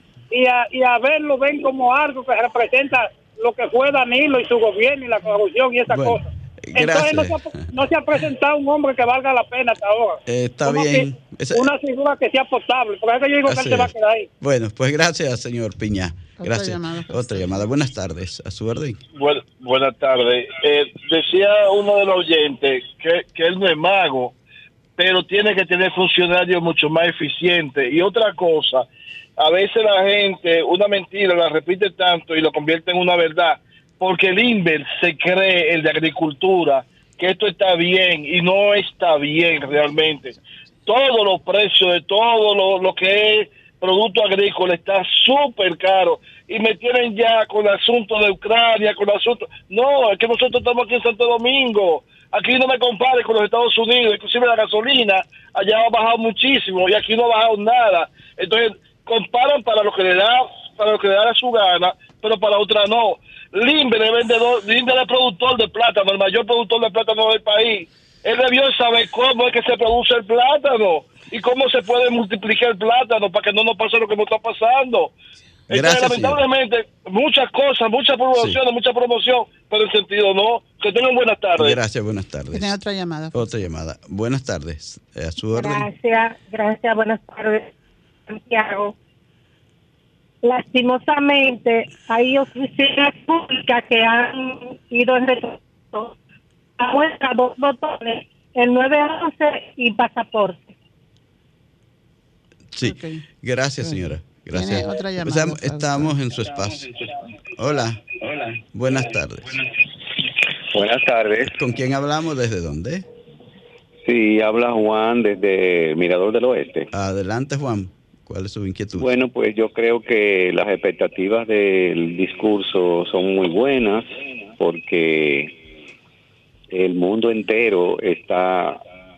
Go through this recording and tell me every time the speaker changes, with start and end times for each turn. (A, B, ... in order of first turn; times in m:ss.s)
0:00.3-0:14.3 A
0:05.9-0:07.4 B
0:10.3-0:11.7 B
0:13.4-0:19.0 B
0:16.4-0:17.7 C
0:19.2-0:24.4 D
0:25.0-0:28.9 D
0:29.4-1:15.1 D
1:15.7-1:21.8 D
1:15.7-1:16.4 B
1:21.6-1:22.7 B
1:22.5-1:23.4 C
1:23.3-1:25.9 B
1:25.5-1:27.7 E
1:28.3-1:28.9 E
1:30.4-1:36.2 E
1:36.8-1:40.7 E
1:42.7-1:46.9 B
1:42.8-1:43.2 C
1:43.8-1:46.2 C
1:47.6-1:48.0 B
1:48.7-1:49.5 B
1:50.7-1:51.5 F
1:51.5-1:53.0 B
1:54.0-1:56.9 F
1:56.9-1:59.1 B
1:59.0-2:05.5 F
2:06.7-2:08.8 F